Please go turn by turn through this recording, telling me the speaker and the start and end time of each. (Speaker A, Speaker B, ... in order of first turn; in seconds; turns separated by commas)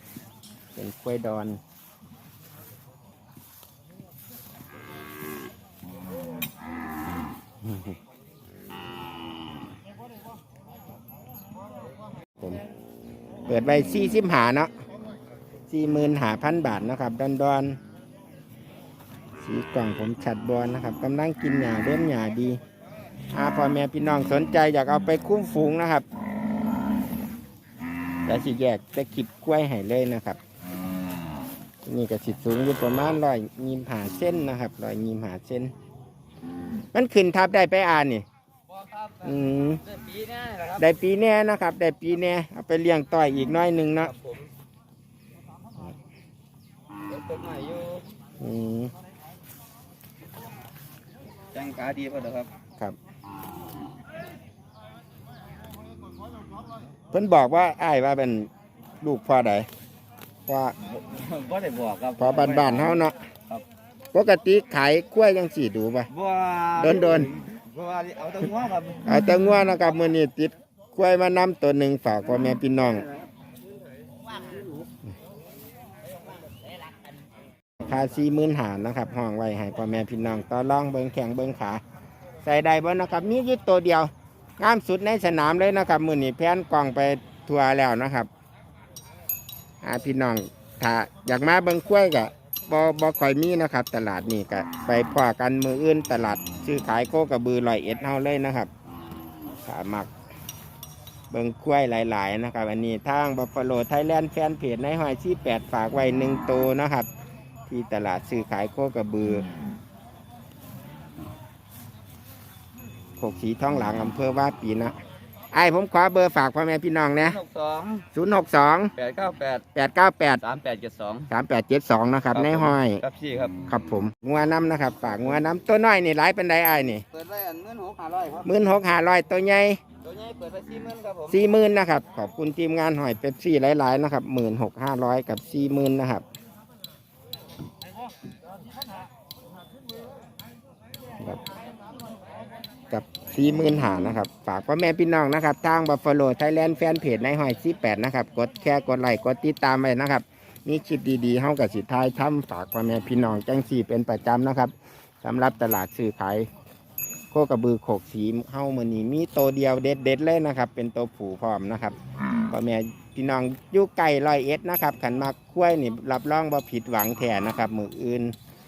Speaker A: 0.8-1.6, Speaker A: 13.5-14.7, Speaker A: 15.7-17.8, Speaker A: 19.4-22.6, Speaker A: 23.3-26.1, Speaker A: 28.3-30.4, Speaker A: 31.9-35.7, Speaker A: 36.9-38.3, Speaker A: 39.2-39.9, Speaker B: 39.9-40.8, Speaker A: 40.7-44.1, Speaker B: 47.1-48.0, Speaker A: 48.4-48.9, Speaker B: 51.5-52.5, Speaker A: 57.1-58.5, Speaker A: 59.0-59.7, Speaker A: 60.5-60.8, Speaker B: 60.9-63.6, Speaker A: 62.2-63.2, Speaker A: 64.1-66.1, Speaker B: 66.1-69.0, Speaker A: 66.8-67.3, Speaker A: 69.0-73.1, Speaker A: 77.8-81.8, Speaker A: 82.4-88.3, Speaker A: 89.8-98.7, Speaker A: 99.7-100.1, Speaker A: 101.3-107.1, Speaker A: 107.7-109.5, Speaker A: 113.2-115.0, Speaker A: 115.5-117.4, Speaker B: 117.2-118.1, Speaker A: 118.1-118.9, Speaker B: 119.0-119.7, Speaker A: 119.7-120.4, Speaker B: 120.4-121.3, Speaker A: 121.3-123.0, Speaker B: 122.3-123.6, Speaker A: 123.7-127.1, Speaker B: 127.1-128.5, Speaker A: 128.4-129.8, Speaker B: 130.0-131.5, Speaker A: 131.3-136.2, Speaker A: 142.9-156.5, Speaker A: 157.3-168.3